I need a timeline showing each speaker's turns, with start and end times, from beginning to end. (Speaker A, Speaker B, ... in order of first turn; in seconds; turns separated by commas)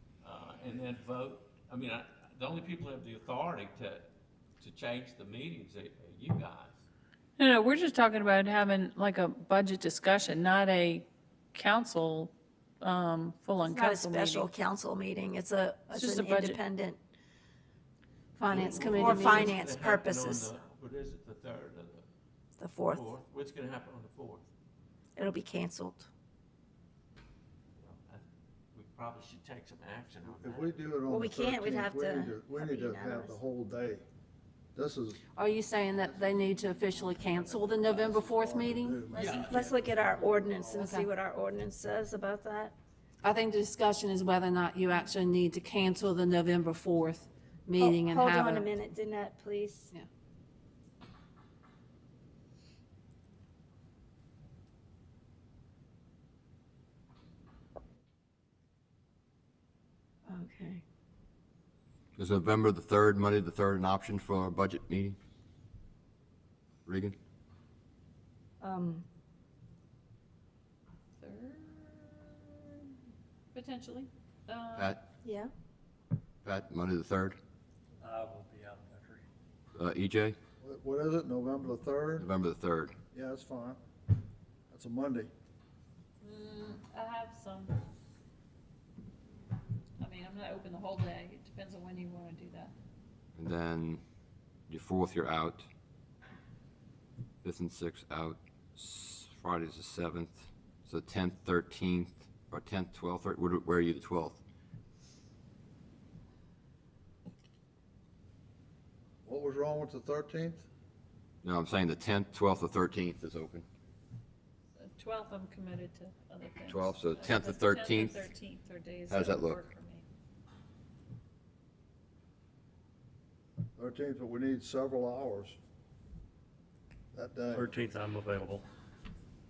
Speaker A: 0.2-4.0, Speaker A: 4.6-6.7, Speaker B: 7.4-14.5, Speaker C: 13.6-17.0, Speaker B: 15.9-16.6, Speaker D: 18.4-19.5, Speaker A: 18.5-22.0, Speaker C: 18.5-20.5, Speaker C: 22.6-23.1, Speaker A: 22.9-24.4, Speaker C: 25.1-26.1, Speaker A: 27.8-30.8, Speaker E: 30.2-34.0, Speaker C: 31.1-33.4, Speaker E: 34.7-35.2, Speaker D: 35.3-39.0, Speaker E: 35.9-39.8, Speaker A: 39.1-39.6, Speaker C: 39.2-42.7, Speaker F: 40.3-40.6, Speaker D: 40.7-41.1, Speaker D: 43.2-48.7, Speaker C: 47.8-49.9, Speaker C: 60.2-60.8, Speaker G: 62.2-65.2, Speaker G: 66.8-67.1, Speaker C: 68.6-69.0, Speaker B: 71.2-72.9, Speaker B: 73.5-75.0, Speaker G: 74.7-75.0, Speaker C: 75.2-75.5, Speaker G: 76.4-77.4, Speaker F: 78.0-79.2, Speaker G: 79.7-80.3, Speaker E: 80.6-82.3, Speaker G: 82.2-82.9, Speaker E: 83.1-83.8, Speaker E: 84.7-85.3, Speaker B: 86.2-87.8, Speaker B: 90.0-92.7, Speaker G: 93.3-94.0, Speaker G: 94.7-95.7, Speaker G: 97.4-104.4, Speaker E: 109.2-110.6, Speaker G: 111.4-113.6, Speaker B: 114.8-120.0, Speaker G: 116.7-118.2, Speaker G: 119.1-119.6, Speaker E: 123.8-125.6, Speaker E: 127.1-127.8, Speaker F: 127.5-128.6